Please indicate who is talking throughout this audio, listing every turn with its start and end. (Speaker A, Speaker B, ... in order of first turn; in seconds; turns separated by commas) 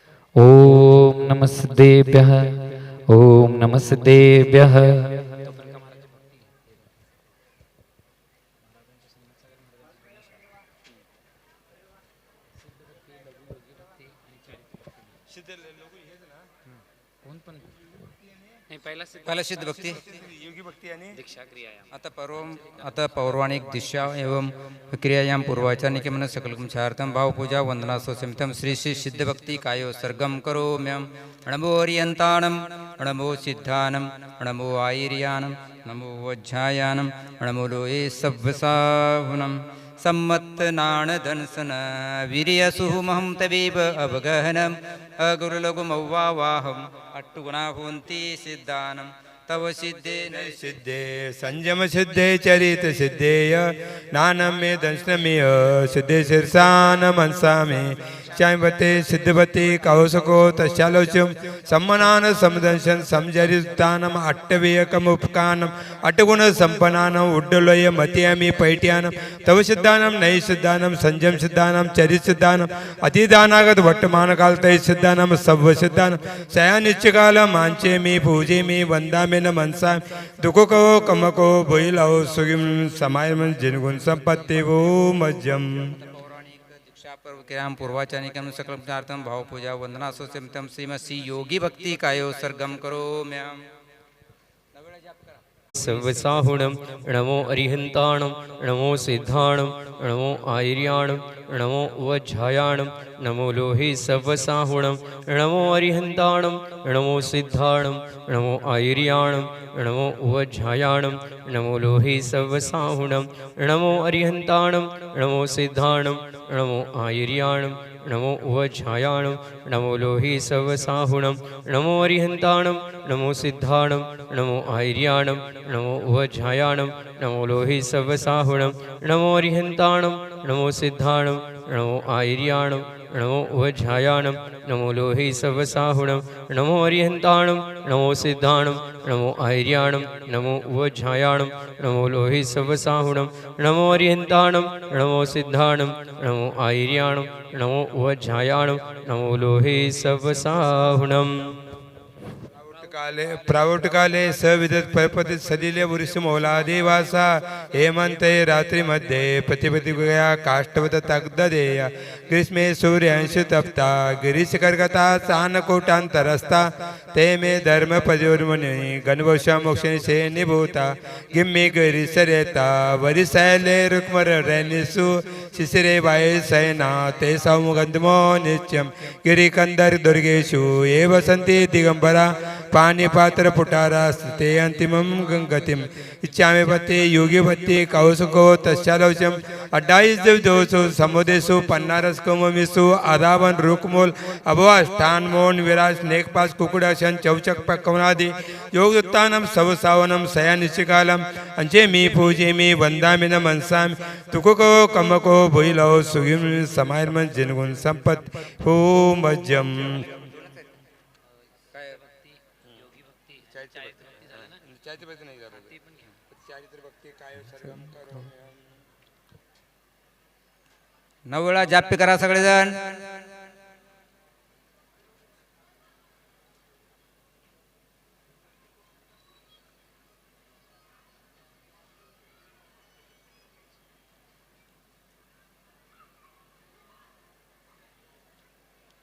Speaker A: 0.4-5.3, Speaker B: 15.4-16.3, Speaker C: 19.1-20.0, Speaker B: 20.1-21.2, Speaker C: 21.9-50.7, Speaker B: 50.3-85.8, Speaker C: 85.9-93.6, Speaker C: 94.8-95.3, Speaker D: 95.8-151.3, Speaker B: 152.6-210.2, Speaker B: 213.5-215.8, Speaker B: 216.4-218.5, Speaker C: 221.3-223.3